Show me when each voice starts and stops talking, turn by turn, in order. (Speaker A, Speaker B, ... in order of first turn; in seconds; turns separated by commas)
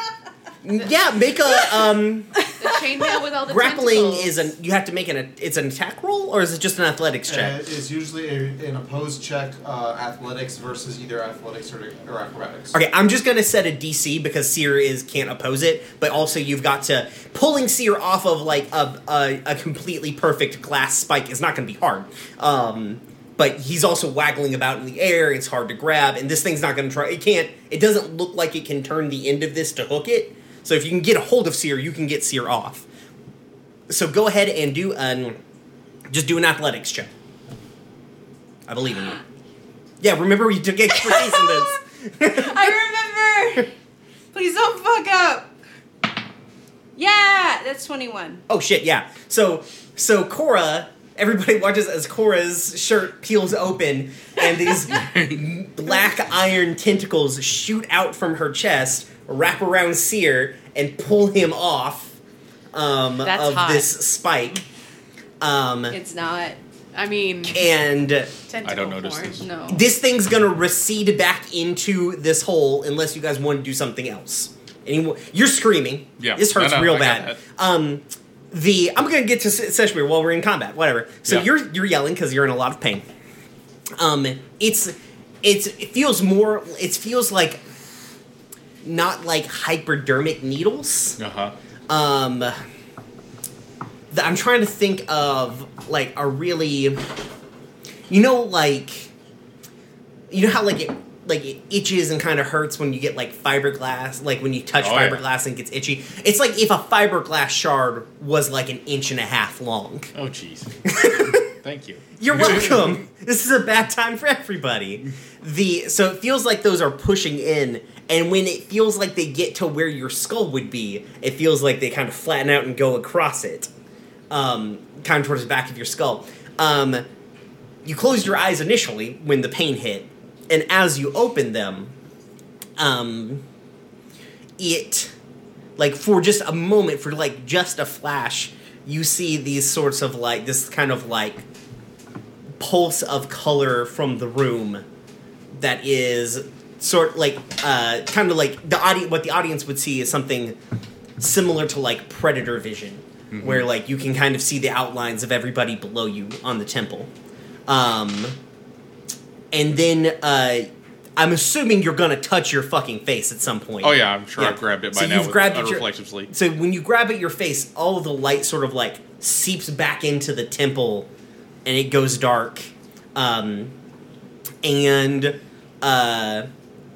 Speaker A: 0.6-2.3, Speaker B: 2.6-4.5, Speaker A: 3.5-7.6, Speaker C: 7.3-12.8, Speaker A: 12.7-32.8, Speaker A: 33.9-35.4, Speaker A: 36.1-37.1, Speaker A: 38.7-39.2, Speaker A: 40.0-42.7, Speaker D: 41.0-41.7, Speaker D: 42.2-43.7, Speaker D: 44.3-45.5, Speaker D: 47.0-48.4, Speaker A: 48.5-62.2, Speaker E: 55.1-55.4, Speaker A: 62.7-64.6, Speaker B: 63.2-63.9, Speaker A: 65.4-66.0, Speaker D: 65.9-66.6, Speaker B: 66.9-67.6, Speaker A: 67.5-68.3, Speaker B: 68.5-69.4, Speaker E: 68.6-69.5, Speaker D: 69.4-69.8, Speaker A: 69.7-83.0, Speaker E: 76.2-77.4, Speaker A: 84.0-87.6, Speaker A: 88.8-91.2, Speaker E: 91.2-91.5, Speaker A: 91.9-92.6, Speaker A: 94.1-97.0, Speaker A: 98.1-99.1, Speaker A: 100.3-110.1, Speaker E: 104.8-105.2, Speaker E: 110.1-113.0, Speaker A: 110.8-111.5, Speaker A: 112.2-123.7, Speaker A: 124.3-127.0, Speaker A: 127.8-131.9, Speaker A: 132.8-133.4, Speaker A: 134.6-135.1, Speaker A: 135.8-141.4, Speaker A: 142.6-144.8, Speaker A: 145.5-150.6, Speaker A: 151.2-157.1, Speaker E: 153.3-153.7, Speaker A: 157.7-158.3, Speaker A: 159.5-171.1, Speaker E: 163.8-166.3, Speaker A: 171.6-173.7, Speaker A: 174.6-176.5